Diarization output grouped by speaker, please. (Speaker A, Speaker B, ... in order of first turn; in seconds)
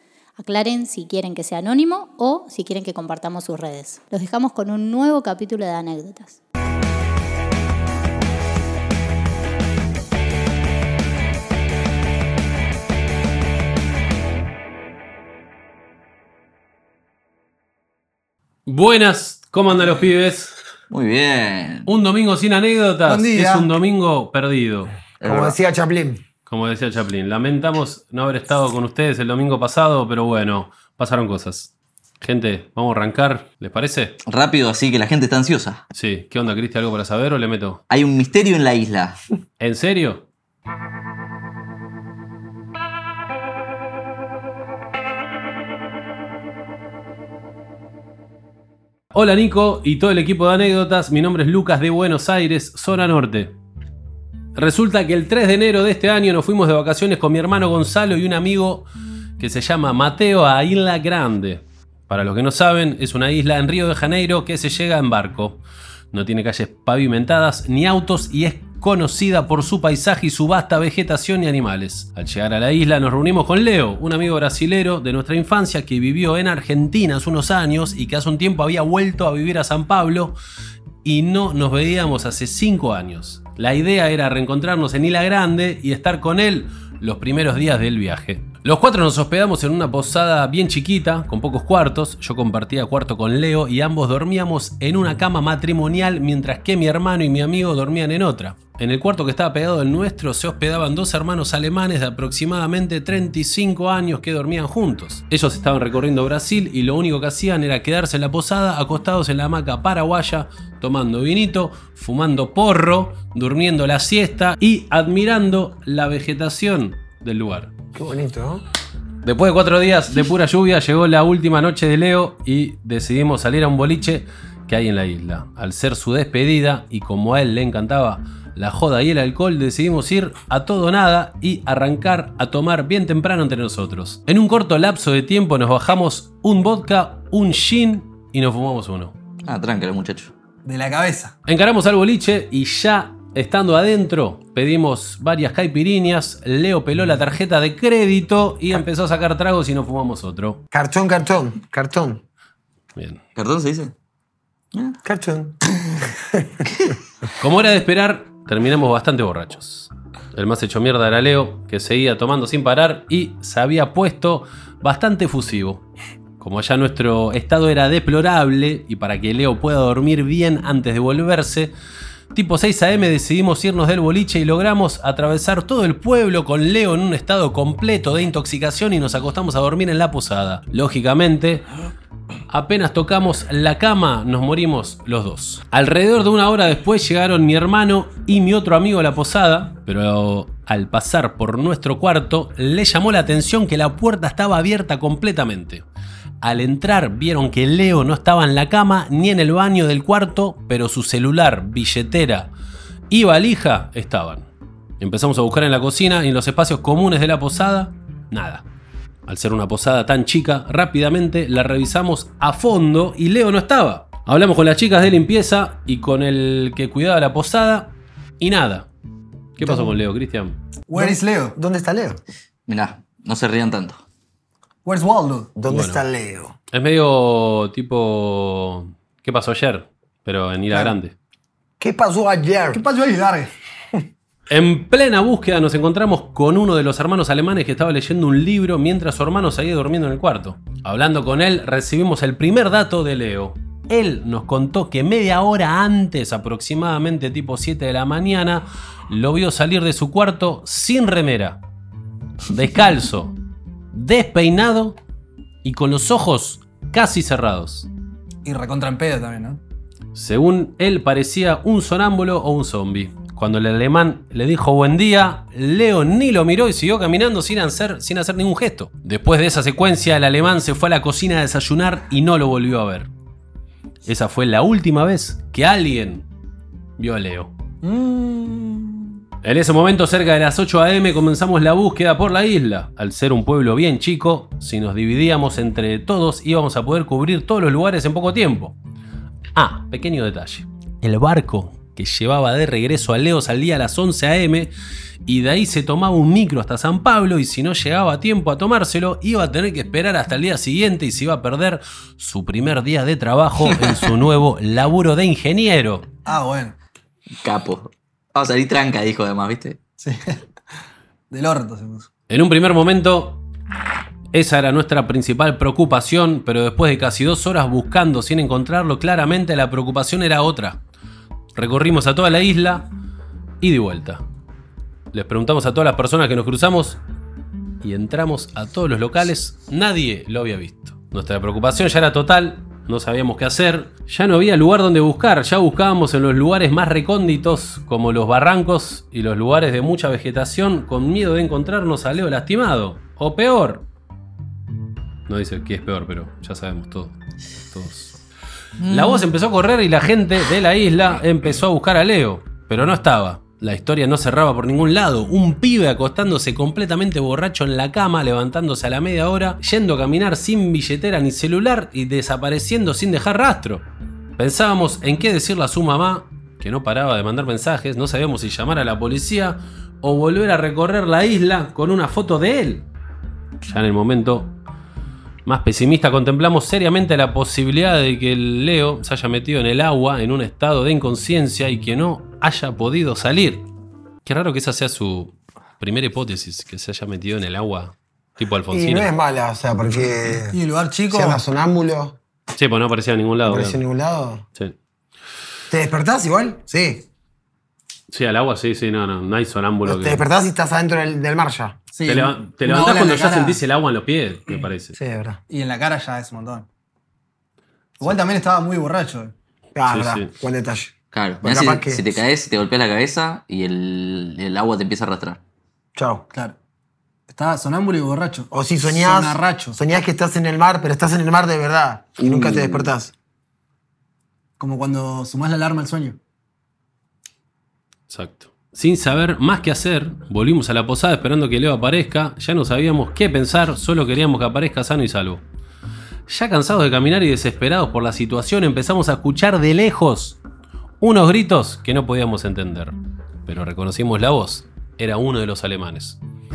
Speaker A: 0.4-6.4
Speaker B: 18.6-20.5, 21.9-24.9, 26.5-34.2, 35.9-37.8, 39.6-40.2, 49.1-53.5, 54.5-65.6, 66.1-80.4, 81.0-117.7, 119.2-139.1, 141.4-150.6, 152.9-153.2, 157.4-165.8, 166.4-171.7, 172.3-181.7, 182.5-195.8, 196.4-202.5, 203.1-204.5, 205.0-208.6, 209.2-218.9, 219.6-220.6, 225.7-226.0, 226.7-231.1, 234.5-251.6, 252.5-253.3, 253.9-255.0, 255.6-257.9, 260.1-273.1, 274.1-276.2, 277.0-277.5, 279.4-288.8, 289.5-294.7, 295.2-306.1, 312.3-313.4, 314.3-320.8, 321.5-322.9, 323.6-324.2, 325.1-327.0, 327.8-343.8, 345.3-347.1, 347.7-348.1, 348.9-363.9, 364.4-372.9, 373.6-374.5, 375.4-383.6, 384.2-389.1, 392.6-393.8, 398.1-400.3, 402.0-404.9, 409.9-410.3, 428.1-435.4, 436.3-440.4, 441.0-446.2
Speaker C: 20.9-21.9, 25.2-25.6, 34.2-35.8, 37.9-39.2, 139.4-140.3, 153.3-153.9, 154.7-155.0, 222.7-224.0, 307.4-309.8, 348.8-349.3, 411.1-415.4
Speaker D: 23.0-23.7, 140.6-141.3, 220.9-221.6, 224.8-225.5, 232.7-233.5, 258.4-259.6, 277.8-279.2, 306.2-306.8, 310.0-310.4, 311.3-312.1, 390.4-391.4, 401.9-403.6, 405.5-406.7, 408.0-409.3, 416.3-416.6, 417.3-419.8, 424.6-426.2
Speaker E: 25.2-26.2, 117.9-118.6, 150.7-152.2, 155.0-156.7, 219.6-219.9, 220.9-222.2, 225.6-226.5, 231.8-232.8, 388.7-390.6, 391.1-392.2, 393.4-394.4, 395.7-397.0, 399.9-401.8, 404.9-405.4, 409.7-412.2, 415.9-416.2, 418.5-423.1